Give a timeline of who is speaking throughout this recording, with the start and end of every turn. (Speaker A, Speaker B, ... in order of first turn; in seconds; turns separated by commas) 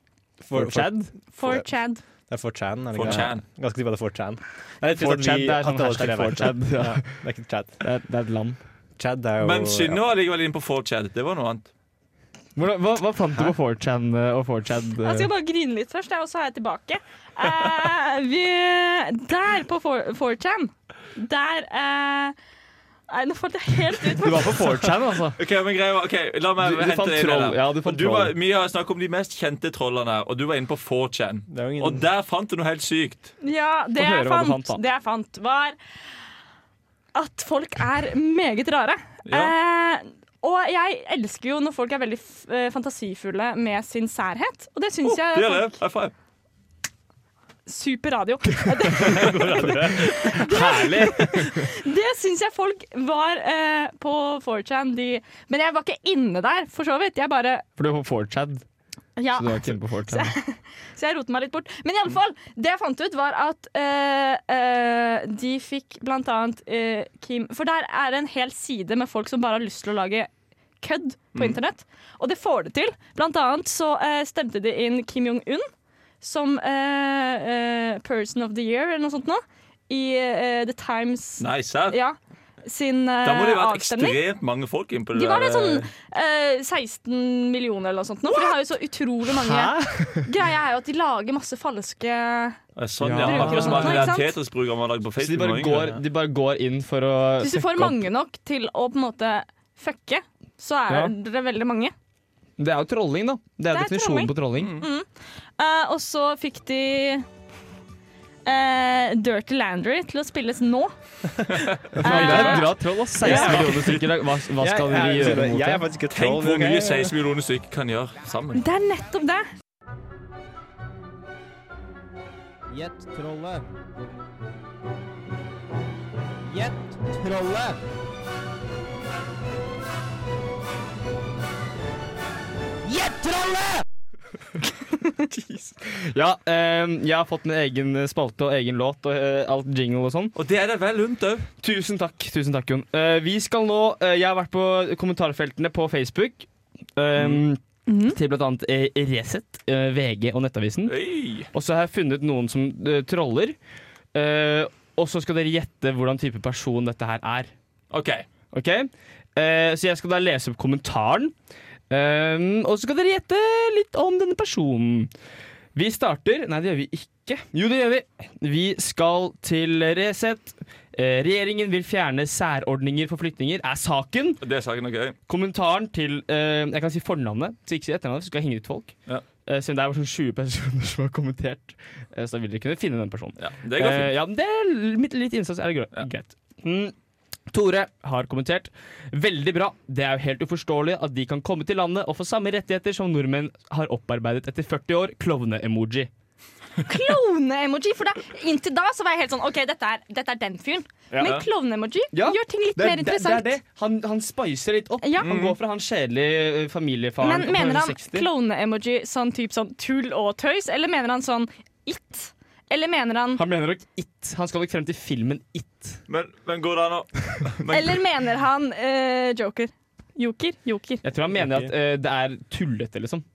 Speaker A: 0.4-1.7, Speaker B: 0.5-1.1, Speaker C: 1.4-2.0, Speaker A: 2.3-7.8, Speaker D: 2.9-3.5, Speaker B: 5.0-7.3, Speaker B: 7.8-8.6, Speaker A: 9.0-10.0, Speaker D: 9.4-11.7, Speaker B: 12.6-15.3, Speaker C: 15.0-22.4, Speaker C: 23.1-24.8, Speaker B: 24.2-25.4, Speaker D: 25.4-33.3, Speaker B: 26.6-28.3, Speaker A: 31.5-32.0, Speaker C: 33.4-35.8, Speaker B: 34.0-34.8, Speaker C: 37.1-45.7, Speaker D: 39.3-39.5, Speaker D: 45.0-46.1, Speaker C: 47.7-57.6, Speaker A: 49.1-50.1, Speaker D: 49.2-49.8, Speaker B: 50.4-51.6, Speaker B: 57.8-58.6, Speaker C: 59.2-70.3, Speaker B: 59.4-60.4, Speaker C: 70.8-75.7, Speaker C: 76.2-84.2, Speaker D: 81.4-82.0, Speaker D: 83.2-85.9, Speaker C: 85.1-92.6, Speaker B: 89.3-90.2, Speaker D: 92.8-96.0, Speaker B: 93.0-94.1, Speaker C: 93.2-94.3, Speaker B: 95.2-98.0, Speaker C: 97.4-101.9, Speaker B: 102.6-104.8, Speaker C: 103.7-107.3, Speaker D: 104.6-104.9, Speaker C: 108.5-110.9, Speaker D: 111.5-112.6, Speaker A: 111.9-112.2, Speaker C: 112.0-113.9, Speaker B: 112.0-115.8, Speaker A: 113.2-113.7, Speaker D: 113.3-114.0, Speaker A: 114.6-117.1, Speaker D: 116.1-118.6, Speaker C: 118.5-119.5, Speaker E: 122.7-123.7, Speaker E: 126.5-127.8, Speaker E: 132.8-133.8, Speaker B: 135.5-140.3, Speaker D: 140.3-141.5, Speaker B: 141.6-150.9, Speaker D: 147.2-147.4, Speaker C: 147.9-148.2, Speaker D: 150.9-151.5, Speaker B: 151.5-153.6, Speaker B: 154.2-157.5, Speaker D: 157.9-158.3, Speaker B: 158.5-161.3, Speaker B: 161.9-165.1, Speaker B: 165.8-174.4, Speaker D: 174.4-175.2, Speaker B: 175.3-178.9, Speaker B: 179.4-186.9, Speaker D: 183.4-184.1, Speaker B: 187.5-196.1, Speaker C: 196.8-203.5, Speaker B: 202.1-208.3, Speaker C: 205.0-205.3, Speaker D: 205.2-205.6, Speaker C: 207.2-213.4, Speaker B: 213.4-216.0, Speaker D: 216.1-218.0, Speaker C: 217.7-221.0, Speaker B: 221.0-223.2, Speaker A: 221.3-221.7